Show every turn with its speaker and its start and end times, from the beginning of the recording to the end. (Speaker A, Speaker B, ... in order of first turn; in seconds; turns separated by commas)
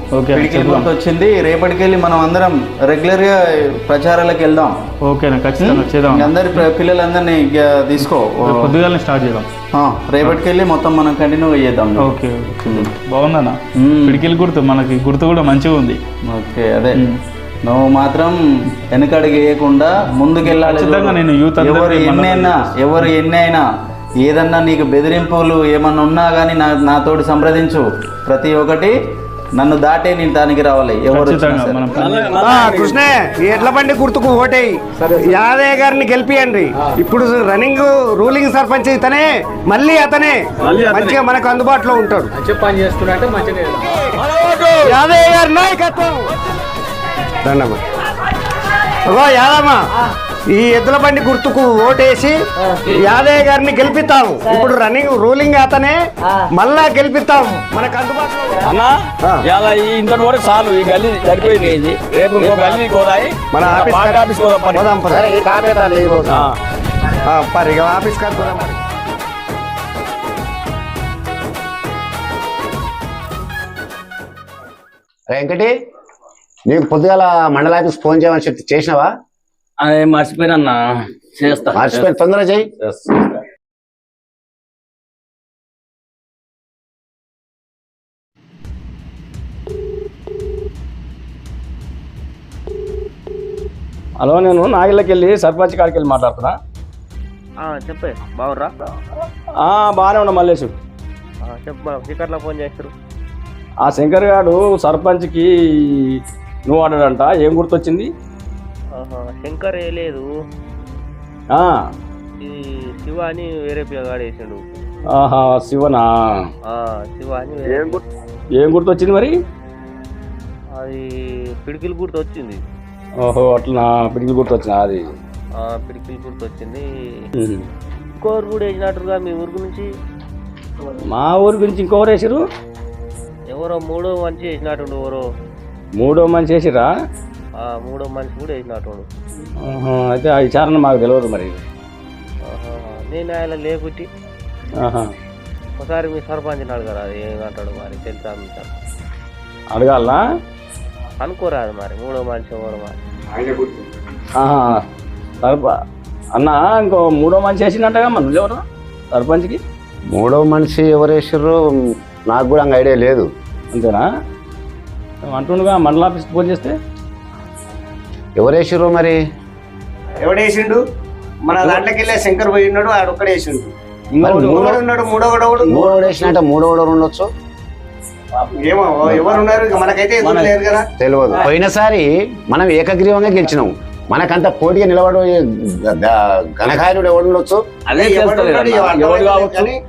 Speaker A: 0.1-0.9, Speaker B: 0.3-4.8, Speaker A: 5.0-6.6, Speaker B: 5.6-8.7, Speaker A: 8.4-9.5, Speaker B: 9.7-12.1, Speaker A: 12.0-16.0, Speaker B: 13.8-14.2, Speaker B: 16.3-17.0, Speaker B: 17.6-18.4, Speaker B: 18.9-23.6, Speaker A: 20.4-22.5, Speaker B: 24.2-28.9, Speaker B: 29.6-31.9, Speaker A: 31.1-32.6, Speaker C: 31.9-33.0, Speaker D: 32.4-42.3, Speaker C: 40.7-41.1, Speaker C: 43.9-45.0, Speaker D: 44.8-46.3, Speaker D: 47.4-47.8, Speaker D: 49.0-49.8, Speaker D: 50.5-56.0, Speaker D: 56.5-58.7, Speaker C: 58.6-64.9, Speaker D: 62.4-62.7, Speaker D: 63.5-65.3, Speaker E: 65.1-66.5, Speaker C: 66.3-66.5, Speaker D: 67.3-68.8, Speaker E: 75.3-75.7, Speaker E: 76.7-79.1, Speaker C: 79.8-82.1, Speaker E: 81.7-82.7, Speaker C: 82.8-83.4, Speaker C: 94.2-96.6, Speaker F: 97.6-98.7, Speaker C: 99.6-100.7, Speaker F: 101.4-102.9, Speaker C: 103.8-108.1, Speaker F: 108.9-110.3, Speaker F: 112.4-114.6, Speaker C: 115.1-116.5, Speaker F: 116.7-118.0, Speaker C: 117.6-118.0, Speaker C: 118.6-119.3, Speaker F: 120.8-121.1, Speaker F: 121.6-122.6, Speaker C: 123.2-125.0, Speaker F: 125.6-126.8, Speaker C: 127.4-127.7, Speaker F: 128.2-129.9, Speaker C: 131.1-132.4, Speaker F: 133.5-135.2, Speaker C: 136.0-136.9, Speaker F: 137.6-139.1, Speaker C: 139.6-141.6, Speaker F: 142.4-144.1, Speaker C: 144.8-145.1, Speaker F: 145.8-148.7, Speaker C: 149.7-150.2, Speaker F: 151.2-153.0, Speaker C: 153.4-153.7, Speaker C: 154.3-154.8, Speaker C: 155.4-155.7, Speaker C: 156.3-158.6, Speaker C: 159.1-159.6, Speaker E: 160.1-161.6, Speaker E: 162.3-163.3, Speaker C: 163.7-164.1, Speaker C: 165.3-166.8, Speaker E: 168.4-169.2, Speaker D: 170.2-170.8, Speaker D: 171.4-173.7, Speaker C: 174.1-174.8, Speaker E: 174.2-174.8, Speaker D: 174.5-175.7, Speaker E: 175.6-177.3, Speaker C: 175.8-176.3, Speaker D: 178.6-180.8, Speaker C: 180.2-180.6, Speaker E: 181.0-185.3, Speaker E: 185.9-187.6, Speaker C: 187.9-189.7, Speaker D: 187.9-189.8